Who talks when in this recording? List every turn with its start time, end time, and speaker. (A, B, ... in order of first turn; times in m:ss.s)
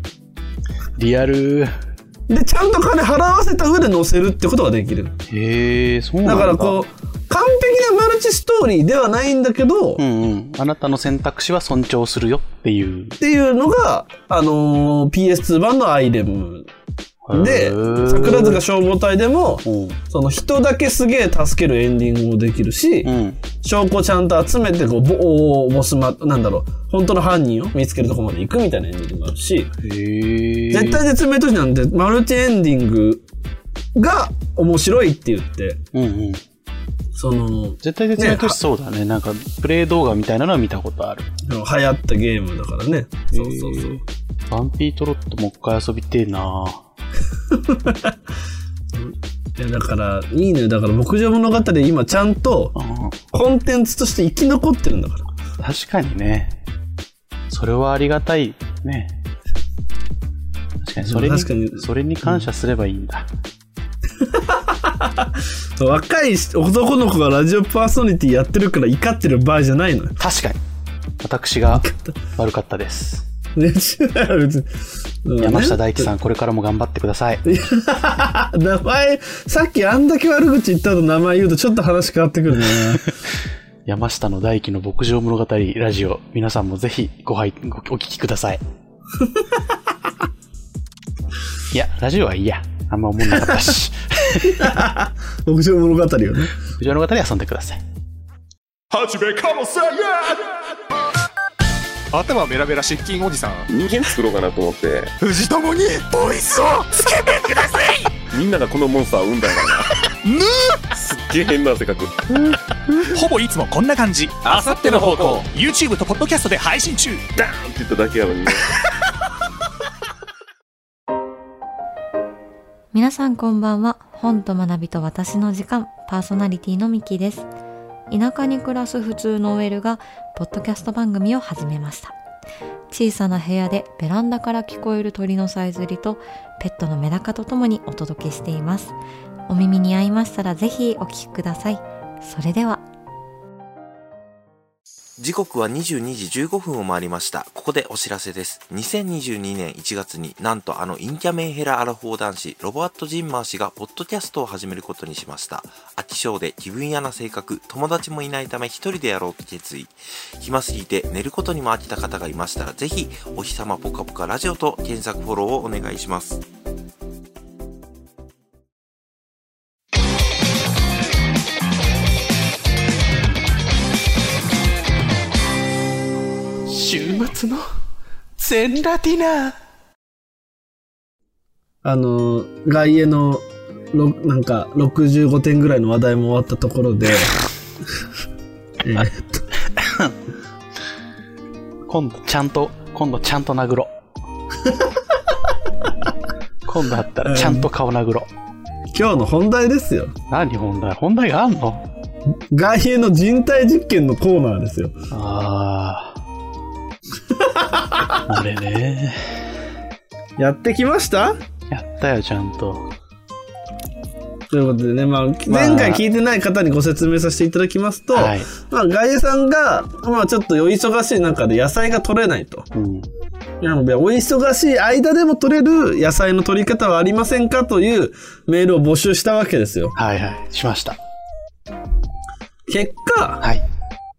0:01.0-0:01.7 A
0:02.3-0:05.2 B
0:05.3-0:06.8 A
0:06.2-0:10.0 B
0:10.0-0:13.2 A
0:13.2-0:16.7 B
0:17.2-0:18.6 A
0:17.3-0:29.7 B
0:19.6-0:20.0 A
0:23.0-0:23.4 A
0:29.8-0:31.0 A
0:30.7-0:33.2 B
0:33.9-0:35.8 B
0:35.9-0:36.4 A
0:37.2-0:38.6 B
0:37.8-0:41.3 A
0:41.4-0:44.0 B
0:43.3-0:46.8 A
0:47.5-0:48.1 B
0:48.9-0:52.7 B
0:52.8-0:53.1 A
0:53.3-0:55.2 B
0:55.6-0:56.5 A
0:57.5-0:59.1 A
1:00.8-1:03.3 A
1:01.0-1:02.4 B
1:04.2-1:10.2 B
1:10.2-1:10.6 A
1:11.2-1:13.2 A
1:11.7-1:12.2 B
1:13.6-1:16.1 B
1:15.4-1:17.4 A
1:17.4-1:23.1 B
1:22.6-1:23.0 A
1:23.8-1:28.6 A
1:31.7-1:34.8 A
1:34.4-1:36.5 B
1:36.7-1:37.8 A
1:38.9-1:40.7 C
1:42.1-1:43.7 C
1:43.7-1:45.1 D
1:45.2-1:48.2 C
1:48.3-1:49.9 D
1:50.2-1:50.9 C
1:51.0-1:52.4 D
1:53.0-1:57.2 C
1:54.4-1:55.4 D
1:57.4-1:58.6 D
2:02.9-2:07.5 E
2:08.1-2:12.1 E
2:12.9-2:18.9 E
2:19.5-2:22.8 E
2:25.2-2:46.4 F
2:56.7-2:57.6 A
2:58.4-2:59.6 A
3:01.8-3:07.4 B
3:08.8-3:09.4 B
3:09.8-3:10.1 A
3:11.8-3:13.9 A
3:16.6-3:18.3 A
3:17.2-3:17.7 B
3:18.9-3:20.1 B
3:20.3-3:21.9 A
3:22.5-3:24.9 B
3:25.1-3:26.2 A
3:27.4-3:28.2 B
3:28.2-3:29.5 A
3:30.4-3:31.4 B
3:31.7-3:32.9 A
3:34.5-3:42.7 B
3:35.5-3:36.0 A
3:38.1-3:38.5 A
3:42.7-3:43.1 A
3:43.6-3:49.9 B
3:49.9-3:51.0 A
3:52.7-3:53.4 B